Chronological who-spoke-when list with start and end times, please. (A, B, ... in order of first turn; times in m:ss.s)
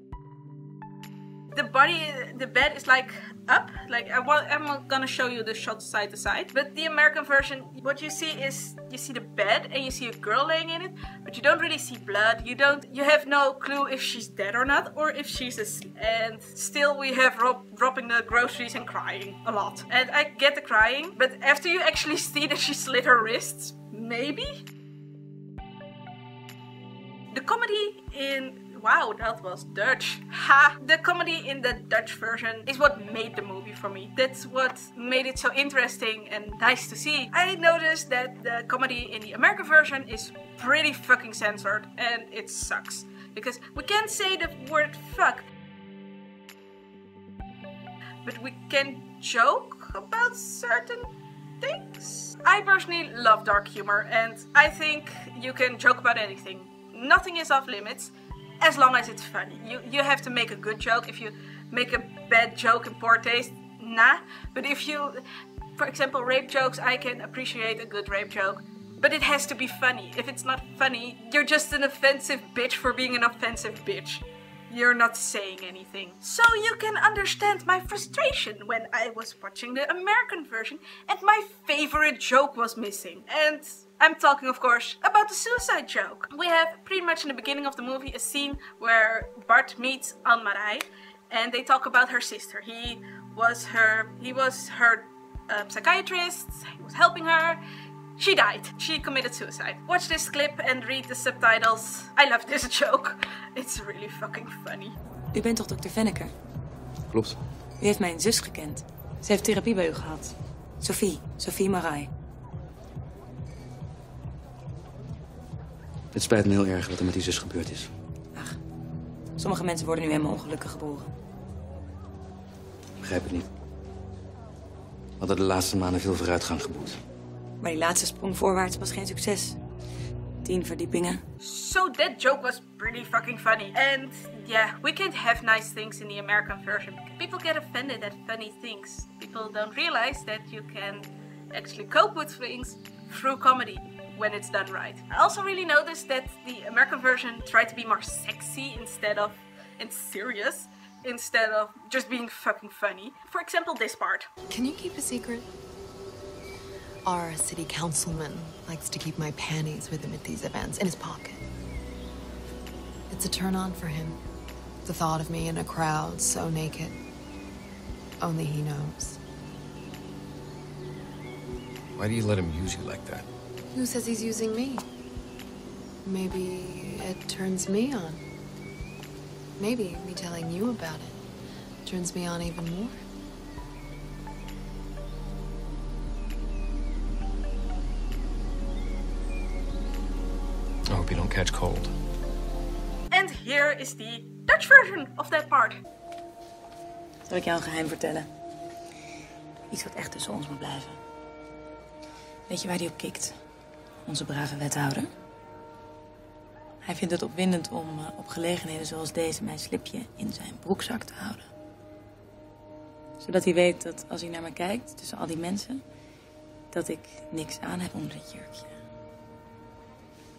0:01.5-0:24.6 A
0:27.3-0:45.5 A
0:48.2-1:05.2 A
1:05.8-1:37.6 A
1:38.2-1:45.0 A
1:45.3-1:46.3 B
1:47.1-1:47.4 C
1:47.8-1:52.1 B
1:56.1-1:57.9 C
1:59.4-2:01.1 B
2:03.0-2:03.4 C
2:05.2-2:07.0 C
2:07.6-2:09.6 B
2:10.4-2:11.2 B
2:11.4-2:34.3 A
2:34.5-2:35.5 D
2:37.0-2:41.4 D
2:43.1-2:44.2 D
2:44.8-2:47.0 D
2:48.2-2:49.2 D
2:52.0-2:53.2 E
2:53.7-2:54.8 D
2:56.0-2:58.2 D
2:59.6-3:01.2 D
3:01.8-3:03.0 D
3:10.9-3:11.9 E
3:13.1-3:15.8 A
3:17.3-3:18.2 B
3:19.7-3:21.0 B
3:22.5-3:23.3 B
3:24.0-3:25.1 B
3:26.8-3:31.4 B
3:33.2-3:35.8 B
3:36.7-3:38.7 B